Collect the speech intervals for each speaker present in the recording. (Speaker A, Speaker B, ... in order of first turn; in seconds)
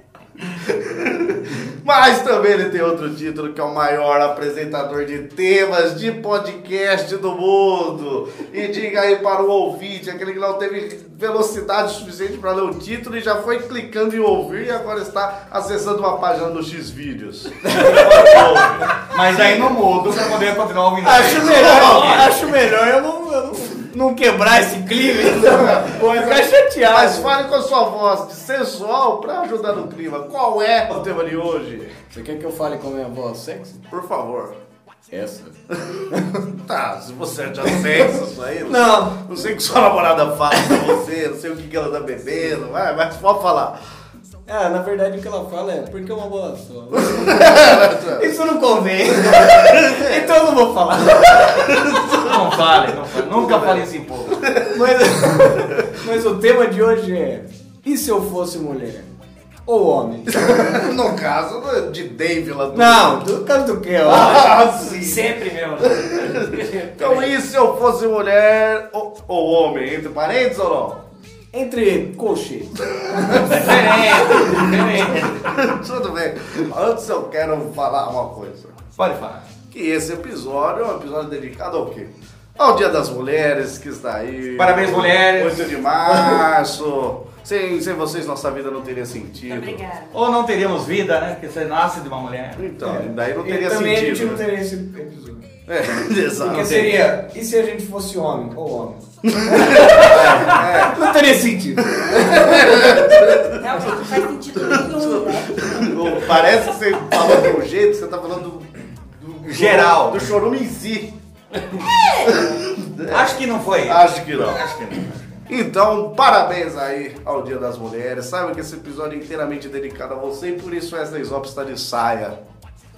Speaker A: 0.6-19.6, 21.5-22.3, 25.2-31.9, 33.9-34.6, 35.7-36.0, 36.5-43.7, 47.1-48.3, 49.3-50.3, 51.5-52.3, 53.4-53.8, 54.4-54.8, 60.3-63.2, 64.0-65.2, 66.0-71.0, 73.5-78.8, 79.7-89.8, 92.5-94.4, 95.7-96.8, 99.3-101.1, 102.0-103.8, 104.6-111.1, 112.2-114.6, 115.5-122.4
Speaker B: 17.6-18.6, 21.0-27.3, 32.1-33.8, 35.1-35.6, 36.1-36.4, 38.7-39.3, 44.5-51.9, 54.7-59.1, 59.7-60.8, 62.7-64.5, 71.5-73.7, 92.8-95.4, 96.4-103.2
Speaker C: 19.1-22.4, 52.2-54.4, 73.3-75.5, 79.0-79.4, 84.5-85.8, 90.1-92.7, 96.5-96.9, 99.9-100.7, 109.4-110.3, 113.1-115.4
Speaker D: 64.0-67.3
Speaker E: 89.5-90.2, 103.5-106.0, 111.7-112.5